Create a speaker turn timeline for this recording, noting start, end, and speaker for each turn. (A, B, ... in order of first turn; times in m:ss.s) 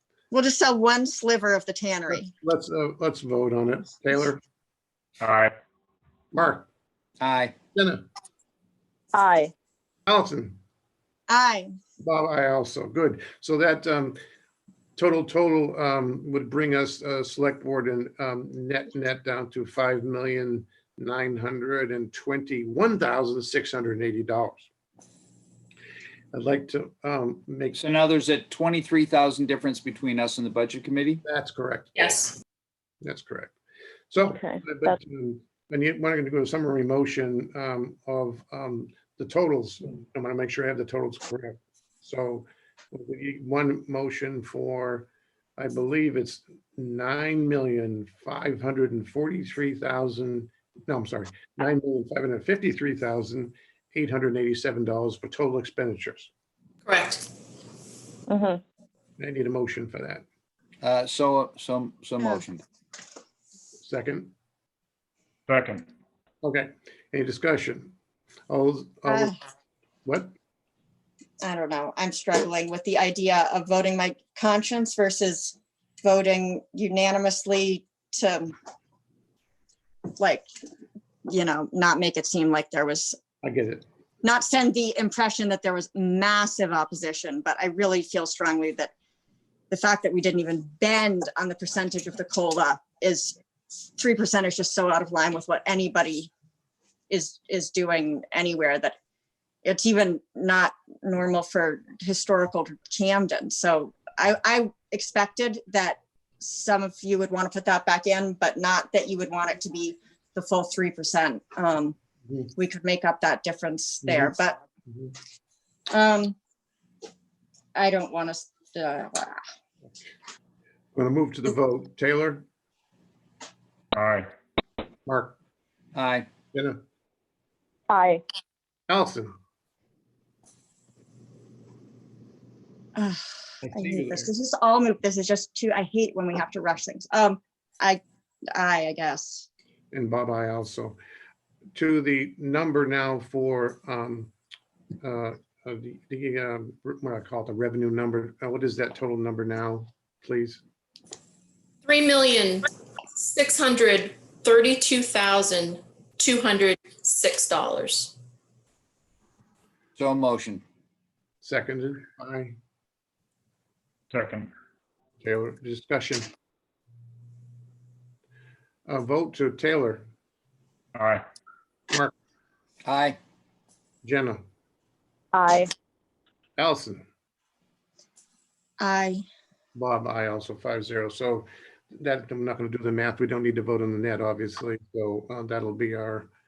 0:00.3-0:02.3 A
0:02.1-0:04.4 B
0:05.2-0:05.5 C
0:06.3-0:06.7 B
0:07.2-0:07.6 D
0:07.8-0:08.1 B
0:09.1-0:09.5 E
0:10.1-0:10.6 B
0:11.3-0:11.7 A
0:12.0-0:14.2 B
0:15.0-0:24.7 B
0:26.3-0:27.8 B
0:27.8-0:31.2 D
0:31.2-0:32.0 B
0:32.0-0:32.4 F
0:33.0-0:33.6 B
0:34.1-0:56.3 B
0:34.3-0:34.9 E
0:56.8-0:57.3 F
0:58.3-0:58.6 E
0:59.2-1:00.2 B
1:00.8-1:02.6 D
1:03.8-1:04.3 B
1:05.5-1:05.9 C
1:06.4-1:07.9 B
1:08.5-1:09.4 B
1:09.1-1:09.4 A
1:10.0-1:10.3 B
1:11.4-1:18.5 A
1:20.2-1:20.4 A
1:21.3-1:23.2 A
1:23.4-1:23.8 B
1:24.2-1:28.9 A
1:29.7-1:33.4 A
1:34.0-1:36.3 A
1:37.1-1:39.0 A
1:39.6-1:52.0 A
1:52.6-1:54.6 A
1:54.0-1:54.4 B
1:54.9-1:55.1 B
1:55.9-1:56.4 A
1:57.8-1:59.4 A
2:01.0-2:02.4 B
2:03.9-2:04.3 C
2:05.1-2:05.4 B
2:06.0-2:06.3 D
2:06.5-2:06.8 B
2:07.9-2:08.2 E
2:08.9-2:09.4 B
2:13.0-2:13.2 A
2:13.6-2:14.3 B
2:13.7-2:18.0 A
2:18.5-2:19.5 A
2:19.9-2:21.0 B
2:21.8-2:24.3 B
2:25.0-2:30.6 B
2:31.8-2:38.2 F
2:40.0-2:40.6 D
2:41.4-2:42.6 B
2:44.1-2:44.5 C
2:45.2-2:46.2 B
2:48.9-2:50.1 B
2:51.0-2:51.2 C
2:52.8-2:53.2 D
2:54.0-2:54.4 B
2:55.3-2:55.7 E
2:56.6-2:57.0 B
2:58.8-2:59.2 A
2:59.8-3:06.3 B